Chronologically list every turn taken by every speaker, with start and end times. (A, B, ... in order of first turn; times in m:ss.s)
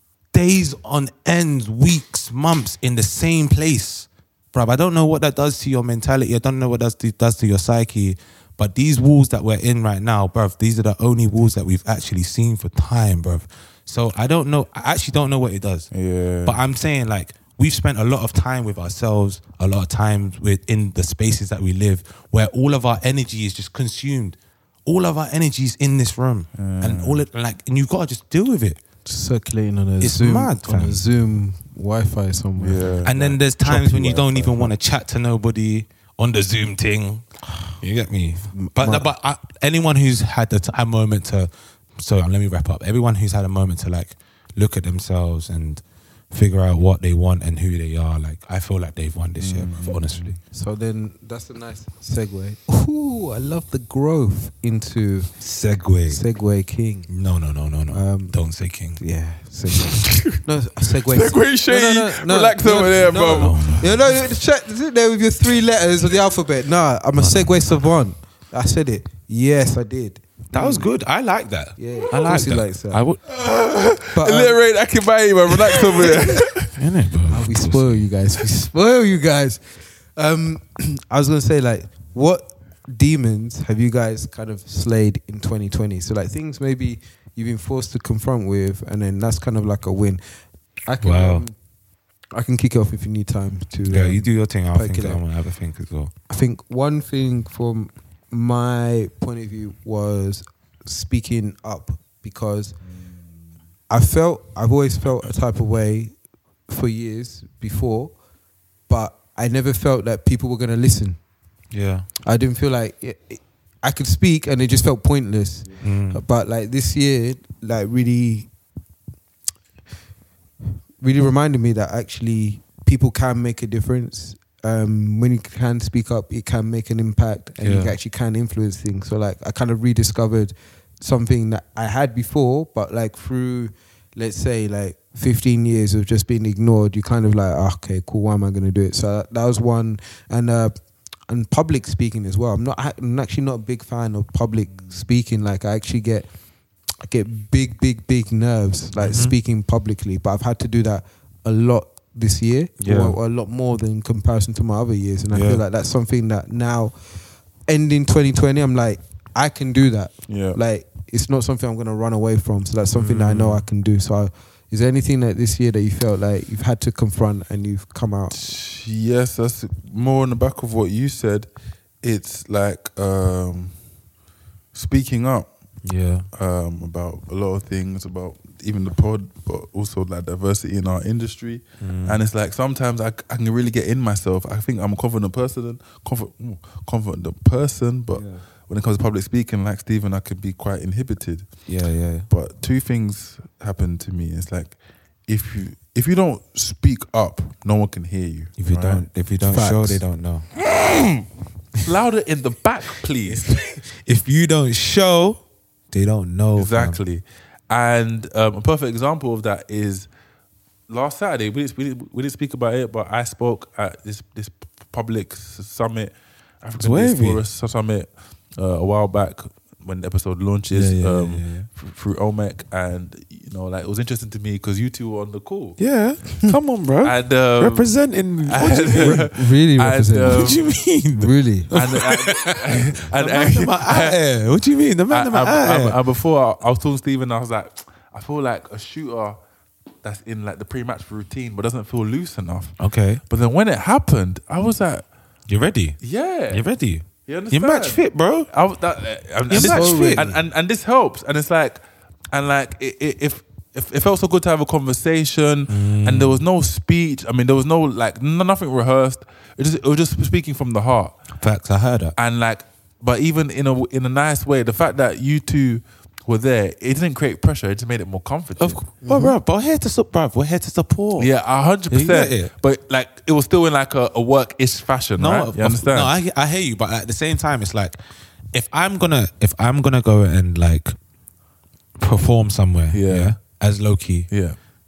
0:00.3-0:15.9 A
0:15.9-0:16.6 B
0:16.4-0:28.8 A
0:26.6-0:27.3 B
0:29.1-0:34.7 C
0:30.0-0:31.0 A
0:32.6-0:33.1 B
0:33.0-0:37.2 A
0:37.8-0:50.4 A
0:38.5-0:39.1 C
0:49.4-0:50.0 B
0:49.8-0:55.3 C
0:55.4-0:56.2 A
0:56.1-0:57.1 C
0:57.1-0:59.0 A
0:57.9-0:58.4 C
0:59.0-1:10.8 C
1:00.0-1:00.3 B
1:01.1-1:03.8 B
1:02.7-1:04.1 A
1:07.2-1:07.8 A
1:10.5-1:13.2 A
1:11.8-1:13.0 C
1:13.3-1:16.7 B
1:14.1-1:14.6 C
1:16.8-1:18.1 A
1:17.3-1:19.6 C
1:20.2-1:30.2 C
1:30.9-1:31.5 C
1:31.0-1:31.5 A
1:32.3-1:35.2 C
1:33.9-1:36.1 A
1:36.3-1:42.8 C
1:43.9-1:46.1 C
1:46.7-1:48.1 C
1:48.9-1:51.2 C
1:51.7-1:52.1 A
1:52.2-1:58.5 C
1:55.8-1:56.2 A
2:01.0-2:20.8 C
2:07.6-2:07.9 A
2:21.3-2:26.3 C
2:27.0-2:37.0 C
2:29.0-2:29.4 A
2:32.8-2:33.2 A
2:35.3-2:35.6 A
2:37.7-2:48.4 C
2:40.3-2:40.6 B
2:43.0-2:43.5 A
2:48.3-2:51.5 B
2:52.0-2:53.8 B
2:54.7-2:55.5 B
2:55.8-2:56.3 A
2:56.3-3:11.6 B
3:01.8-3:02.2 A
3:11.7-3:12.3 A
3:12.3-3:19.1 B
3:18.6-3:20.6 A
3:19.5-3:20.0 C
3:21.8-3:23.6 B
3:23.3-3:27.0 A
3:26.6-3:30.1 B
3:30.9-3:45.8 B
3:36.8-3:37.4 A
3:40.7-3:41.7 A
3:45.8-3:49.3 A
3:47.0-3:50.8 B
3:49.0-3:50.5 C
3:50.3-3:56.0 A
3:51.2-3:51.7 C
3:51.7-3:54.2 B
3:55.1-3:59.4 B
4:00.0-4:02.8 B
4:02.8-4:03.2 A
4:03.3-4:05.0 B
4:05.5-4:08.5 A
4:06.0-4:06.7 B
4:07.2-4:11.8 B
4:09.5-4:10.3 A
4:09.5-4:10.4 C
4:12.3-4:21.2 B
4:15.7-4:16.4 A
4:21.4-4:22.2 A
4:22.2-4:28.9 B
4:28.6-4:31.3 A
4:29.0-4:29.4 C
4:31.2-4:36.1 B
4:31.9-4:32.5 A
4:35.2-4:38.0 A
4:38.5-4:41.0 A
4:42.0-4:44.3 A
4:42.9-4:43.4 B
4:44.3-4:44.6 B